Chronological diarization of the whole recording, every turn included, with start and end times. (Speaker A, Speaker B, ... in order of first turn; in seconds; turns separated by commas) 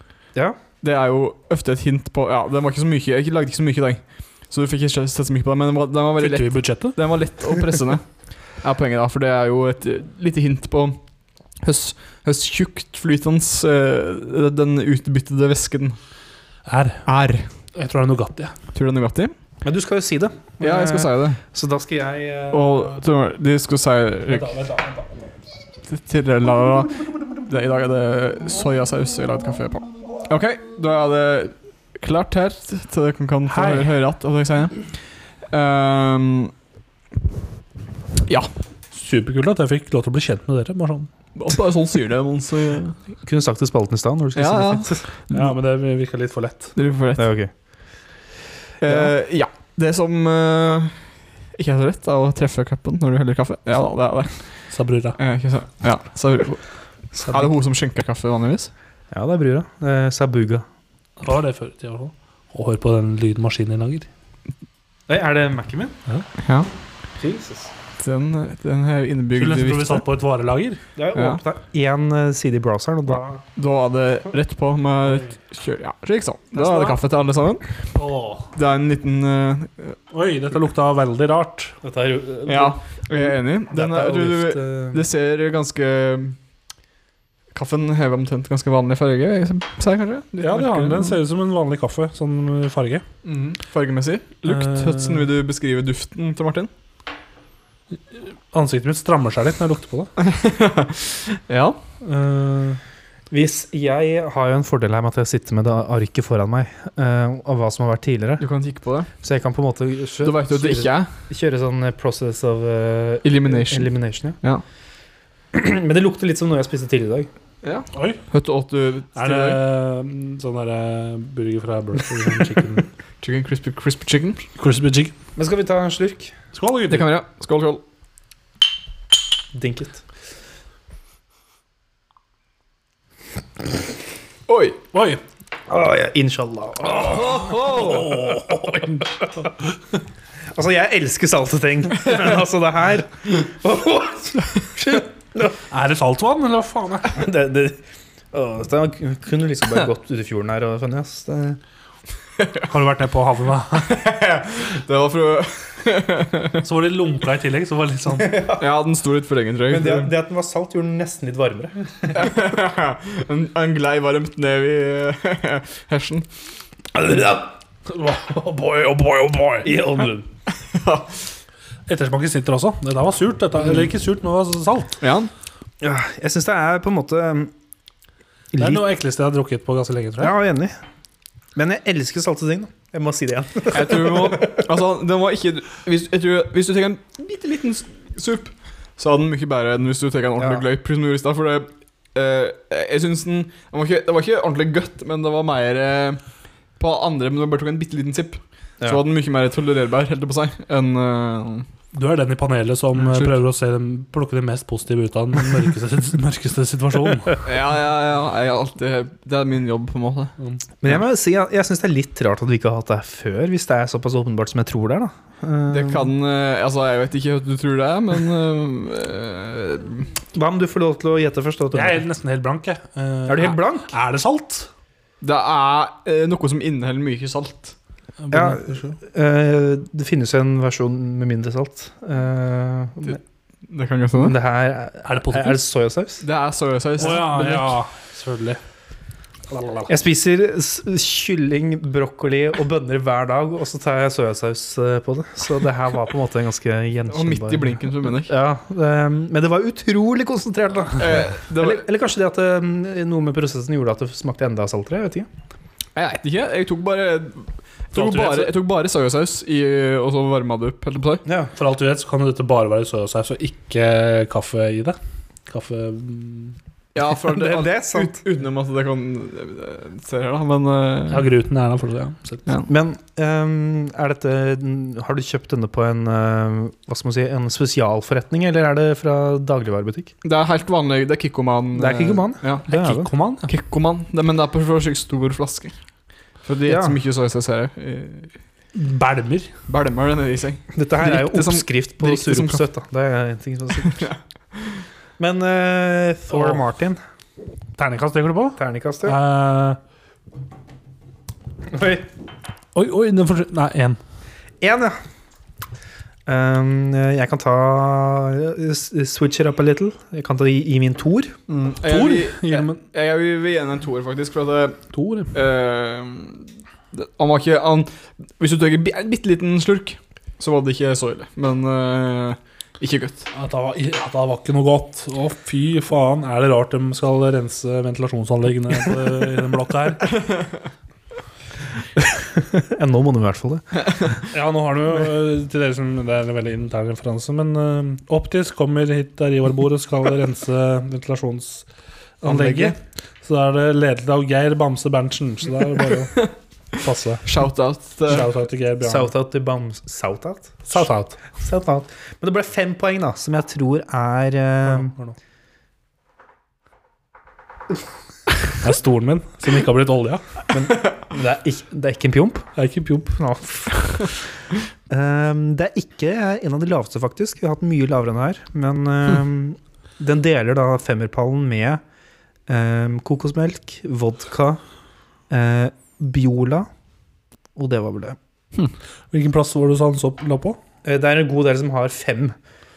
Speaker A: 0.8-11.0, Speaker B: 6.2-7.0, Speaker A: 11.6-16.0, Speaker B: 16.7-17.1, Speaker A: 17.1-17.5, Speaker B: 17.8-18.6, Speaker A: 18.7-19.3, Speaker C: 19.6-22.9, Speaker A: 20.6-21.4, Speaker A: 22.5-24.6, Speaker B: 24.3-25.1, Speaker A: 25.9-35.0, Speaker B: 33.5-33.9, Speaker A: 35.5-36.5, Speaker B: 38.9-41.1, Speaker A: 41.4-43.0, Speaker C: 43.2-45.0, Speaker A: 44.4-45.5, Speaker B: 45.3-46.7, Speaker A: 46.8-47.3, Speaker C: 47.2-47.5, Speaker A: 48.8-58.7, Speaker C: 48.9-49.1, Speaker B: 54.7-55.2, Speaker C: 59.1-60.6, Speaker B: 61.2-64.1, Speaker C: 65.1-66.0, Speaker A: 66.4-66.7, Speaker C: 67.2-67.7, Speaker A: 68.0-70.0, Speaker B: 69.3-70.8, Speaker C: 71.0-73.4, Speaker A: 71.2-71.4, Speaker A: 73.5-77.9, Speaker C: 76.5-77.0, Speaker B: 78.0-78.5, Speaker A: 78.5-80.0, Speaker B: 80.1-81.8, Speaker C: 81.8-85.0, Speaker A: 82.5-86.4, Speaker A: 87.5-91.2, Speaker B: 90.4-93.0, Speaker A: 93.2-96.7, Speaker B: 98.1-100.1, Speaker A: 100.2-101.8, Speaker B: 102.0-102.8, Speaker C: 103.3-108.4, Speaker A: 108.4-109.1, Speaker C: 109.2-114.4, Speaker A: 110.2-111.1, Speaker A: 113.2-114.6, Speaker C: 115.5-117.3, Speaker A: 117.6-119.6, Speaker B: 117.9-118.2, Speaker B: 119.2-122.9, Speaker A: 123.2-124.5, Speaker B: 124.6-125.1, Speaker C: 125.4-126.3, Speaker B: 126.5-127.1, Speaker A: 126.9-127.8, Speaker C: 129.5-130.0, Speaker A: 134.5-134.8, Speaker B: 134.9-135.2, Speaker C: 135.7-139.5, Speaker B: 137.3-138.4, Speaker C: 140.5-145.6, Speaker B: 145.7-147.2, Speaker C: 147.1-151.6, Speaker B: 152.7-153.9, Speaker A: 153.8-156.6, Speaker B: 156.6-158.4, Speaker C: 158.2-158.6, Speaker A: 158.6-160.1, Speaker C: 159.7-162.1, Speaker A: 162.1-166.3, Speaker C: 167.0-167.4, Speaker B: 167.9-169.7, Speaker C: 169.6-170.3, Speaker A: 170.6-171.3, Speaker B: 171.9-175.0, Speaker A: 175.0-175.3, Speaker C: 175.8-177.5, Speaker C: 178.5-178.9, Speaker B: 178.6-180.3, Speaker C: 180.2-180.8, Speaker C: 181.6-184.6, Speaker A: 183.7-196.2, Speaker C: 190.4-190.6, Speaker A: 196.8-201.7, Speaker B: 201.9-207.4, Speaker A: 203.0-203.4, Speaker A: 207.4-210.3, Speaker C: 210.8-216.1, Speaker A: 215.7-220.1, Speaker C: 220.3-222.0, Speaker B: 221.7-224.7, Speaker C: 223.3-223.9, Speaker A: 225.2-227.8, Speaker B: 228.2-229.0, Speaker C: 228.3-233.2, Speaker A: 233.7-234.4, Speaker C: 234.2-236.2, Speaker B: 235.1-235.6, Speaker A: 236.2-237.8, Speaker B: 237.0-238.6, Speaker B: 239.5-239.9, Speaker C: 239.9-255.3, Speaker A: 247.1-248.3, Speaker A: 251.0-251.8, Speaker A: 255.9-261.2, Speaker B: 257.9-258.5, Speaker C: 261.2-261.5, Speaker B: 261.6-266.6, Speaker A: 266.9-271.3, Speaker C: 267.3-268.2, Speaker B: 271.1-272.5, Speaker C: 272.7-280.1, Speaker A: 280.2-282.7, Speaker C: 281.8-283.1, Speaker B: 282.7-283.5, Speaker A: 283.5-285.8, Speaker A: 286.4-288.3, Speaker C: 286.7-287.0, Speaker B: 288.7-289.5, Speaker A: 289.7-292.7, Speaker C: 290.7-294.1, Speaker A: 293.8-294.8, Speaker C: 295.2-297.0, Speaker B: 297.8-299.8, Speaker C: 298.6-299.2, Speaker C: 301.7-302.1, Speaker B: 302.8-304.0, Speaker C: 304.6-305.0, Speaker C: 306.3-311.4, Speaker A: 311.5-314.8, Speaker B: 311.9-312.8, Speaker B: 314.9-315.3, Speaker A: 315.3-323.3, Speaker B: 323.3-330.1, Speaker C: 332.0-333.8, Speaker B: 334.3-341.7, Speaker B: 342.2-347.3, Speaker C: 342.3-342.8, Speaker A: 347.3-348.3, Speaker B: 348.1-349.1, Speaker C: 348.8-354.9, Speaker B: 350.7-351.2, Speaker B: 354.7-355.2, Speaker B: 358.6-360.2, Speaker C: 360.5-362.5, Speaker B: 362.6-363.2, Speaker C: 363.2-364.0, Speaker C: 364.9-371.8, Speaker C: 372.5-374.6, Speaker C: 375.3-376.7, Speaker C: 377.6-378.2, Speaker B: 378.6-380.6, Speaker C: 380.9-382.4